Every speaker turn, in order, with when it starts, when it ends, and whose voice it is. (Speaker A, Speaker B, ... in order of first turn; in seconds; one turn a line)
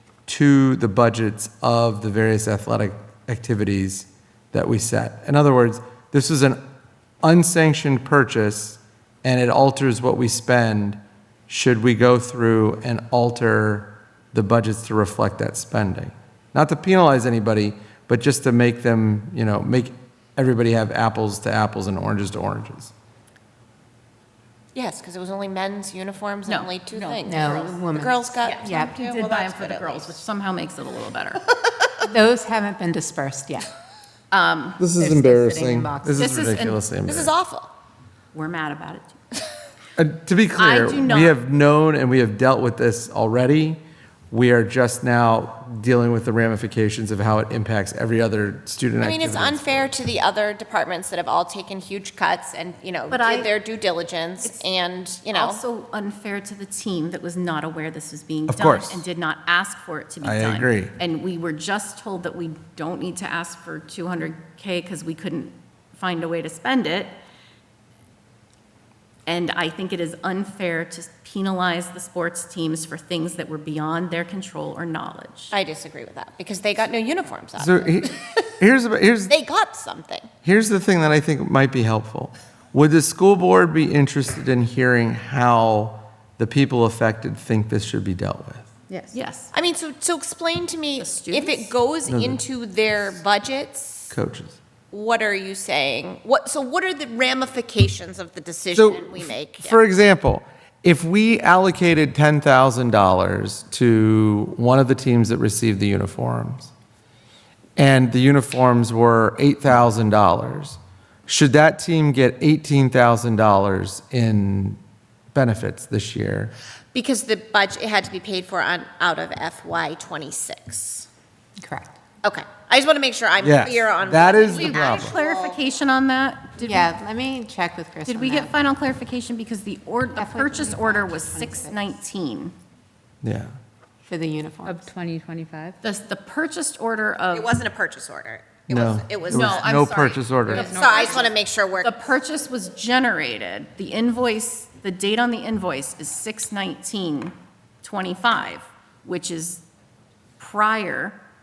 Speaker A: 0.3-6.6
Speaker A: 7.2-22.9
Speaker B: 24.8-30.2
Speaker C: 26.4-27.8
Speaker D: 27.2-29.0
Speaker C: 28.4-31.5
Speaker D: 32.0-33.7
Speaker C: 34.3-34.8
Speaker A: 34.8-37.3
Speaker D: 35.0-36.4
Speaker C: 36.2-36.8
Speaker B: 37.1-37.7
Speaker C: 38.3-39.2
Speaker A: 40.0-43.8
Speaker C: 40.6-41.4
Speaker A: 44.3-50.0
Speaker B: 49.0-55.6
Speaker C: 53.1-53.5
Speaker C: 55.3-67.1
Speaker A: 58.5-59.0
Speaker A: 60.2-60.9
Speaker C: 69.3-75.5
Speaker B: 75.5-78.1
Speaker A: 77.6-79.3
Speaker B: 79.3-80.3
Speaker A: 80.4-88.7
Speaker E: 88.9-89.2
Speaker C: 89.1-89.5
Speaker B: 89.5-94.1
Speaker C: 91.0-91.7
Speaker A: 92.1-92.4
Speaker A: 94.1-94.6
Speaker B: 94.9-99.8
Speaker A: 98.7-106.7
Speaker A: 107.8-114.8
Speaker A: 115.3-116.5
Speaker B: 116.9-121.1
Speaker D: 121.6-121.9
Speaker B: 122.2-125.6
Speaker A: 123.4-125.2
Speaker C: 124.4-126.9
Speaker D: 126.6-128.5
Speaker C: 128.1-132.5
Speaker D: 130.2-131.9
Speaker A: 133.2-133.5
Speaker D: 134.1-134.9
Speaker E: 134.7-135.8
Speaker C: 135.8-137.6
Speaker B: 137.3-139.8
Speaker A: 138.7-140.7
Speaker C: 139.3-149.6
Speaker E: 140.5-141.3
Speaker B: 140.5-142.1
Speaker C: 150.4-151.2